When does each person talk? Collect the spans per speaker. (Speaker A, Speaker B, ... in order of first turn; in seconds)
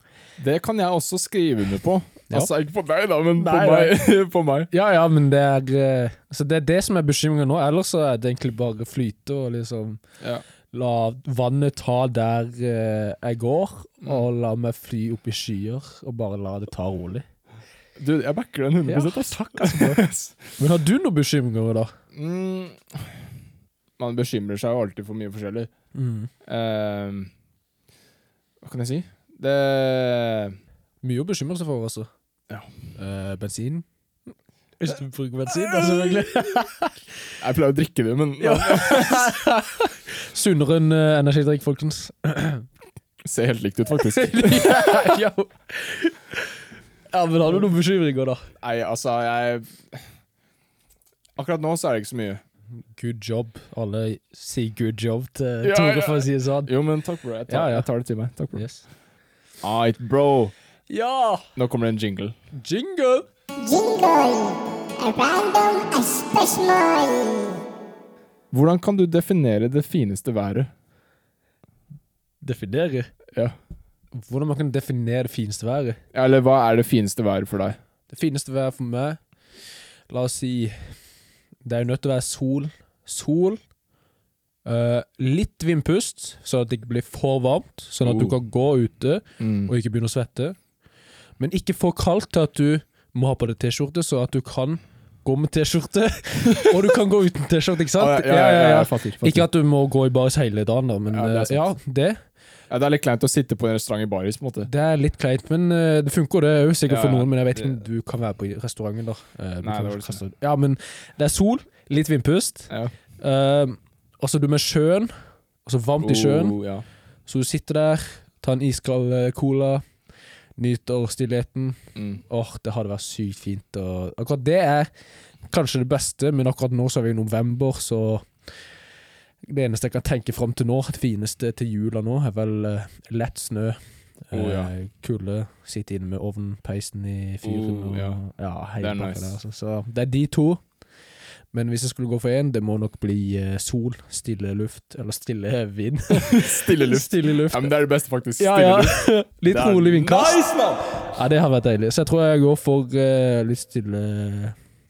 Speaker A: 0.4-4.7, 18.0-20.5, 22.1-23.2, 24.0-25.7, 26.4-27.3, 28.6-30.6, 37.4-39.4, 43.2-45.2, 48.6-50.0, 51.4-52.4, 55.6-58.6, 59.6-60.5, 61.5-62.3, 68.5-70.7, 76.1-77.8, 88.0-88.3, 89.4-89.7, 98.0-99.5, 101.1-101.7, 102.7-104.7, 106.9-107.8, 109.6-110.2, 116.0-116.8, 121.9-122.2, 134.3-134.7, 137.4-138.2, 138.8-139.3, 146.2-150.8
Speaker B: 3.4-3.9, 4.7-10.0, 10.7-17.2, 18.9-20.0, 20.6-21.9, 25.9-26.3, 31.0-32.1, 33.0-33.9, 34.8-37.0, 38.4-42.6, 44.0-46.6, 47.1-48.5, 52.9-56.7, 57.5-57.9, 58.5-58.8, 60.9-61.4, 62.5-63.2, 72.4-73.1, 74.2-76.0, 78.1-79.2, 80.1-80.9, 81.6-83.6, 84.6-90.6, 91.4-102.2, 104.6-115.1, 115.6-116.6, 117.2-119.8, 120.6-124.9, 125.5-128.3, 129.4-140.6, 141.5-147.7, 148.4-154.6
Speaker C: 63.6-67.6